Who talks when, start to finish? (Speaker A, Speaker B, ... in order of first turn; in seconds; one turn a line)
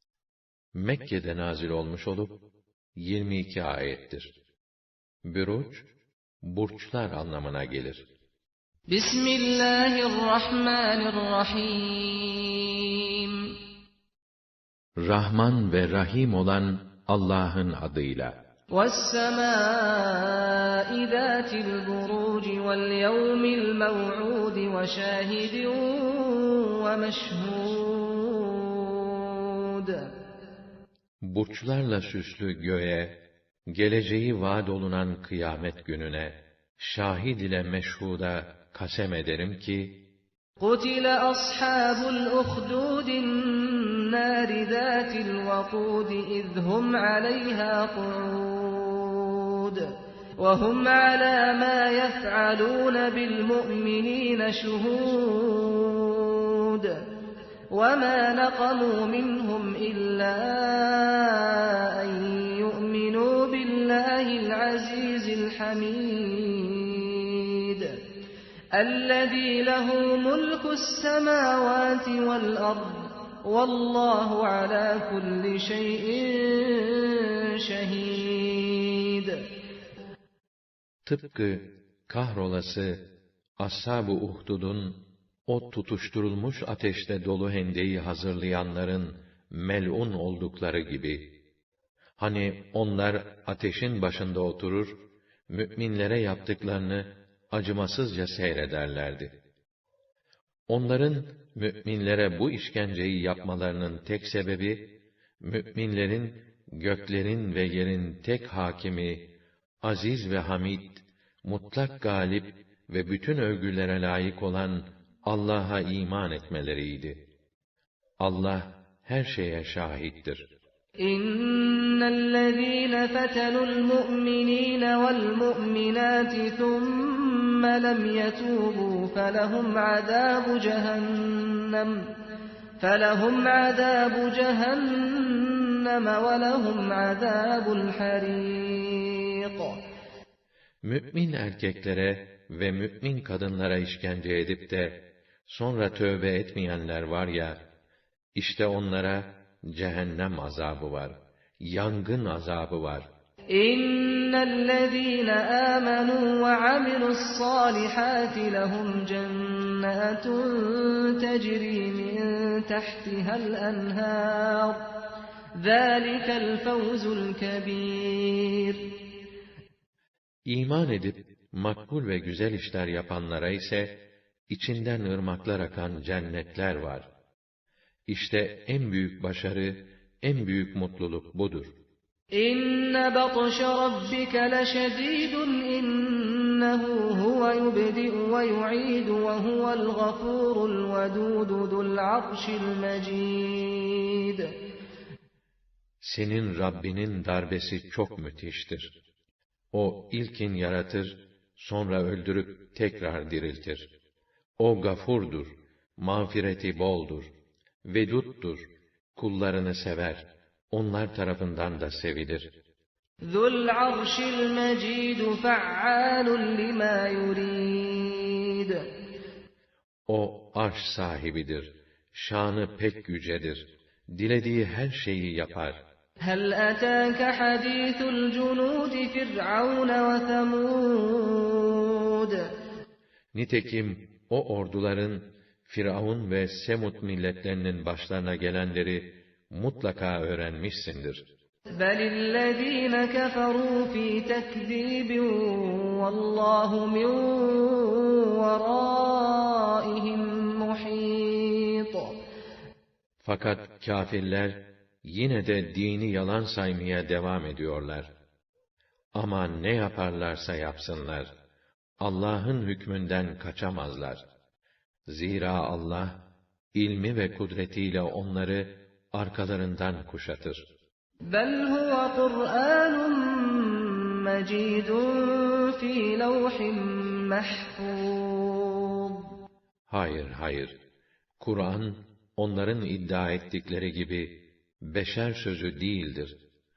Speaker A: 0.7-2.4
Speaker A: 3.0-4.3
Speaker A: 5.2-5.9
Speaker A: 6.4-8.0
Speaker B: 8.9-13.5
Speaker A: 15.0-18.3
Speaker B: 18.7-30.1
Speaker A: 31.2-33.1
Speaker A: 33.7-39.9
Speaker B: 40.6-57.0
Speaker B: 57.7-68.0
Speaker B: 68.7-79.5
Speaker A: 81.0-83.0
Speaker A: 83.6-91.2
Speaker A: 92.2-94.9
Speaker A: 95.5-99.3
Speaker A: 100.7-104.8
Speaker A: 105.4-109.2
Speaker A: 109.8-117.2
Speaker A: 118.2-120.4
Speaker B: 121.0-132.1
Speaker B: 132.8-139.8
Speaker A: 140.8-147.6
Speaker A: 148.3-153.1
Speaker B: 153.5-164.8
Speaker B: 165.6-168.9
Speaker A: 170.4-173.9
Speaker A: 174.5-177.1
Speaker A: 178.1-181.7
Speaker B: 182.4-194.5
Speaker A: 196.0-198.9
Speaker A: 199.7-203.9
Speaker A: 204.6-207.3
Speaker A: 207.8-212.5
Speaker B: 213.3-218.8
Speaker A: 220.1-225.8
Speaker B: 226.2-232.5
Speaker A: 233.3-241.2
Speaker B: 241.8-252.2
Speaker A: 253.2-258.1
Speaker A: 259.2-261.3
Speaker A: 262.0-264.2
Speaker A: 265.1-266.2
Speaker A: 266.7-270.6
Speaker B: 271.3-279.3
Speaker A: 279.9-280.7
Speaker A: 281.4-286.4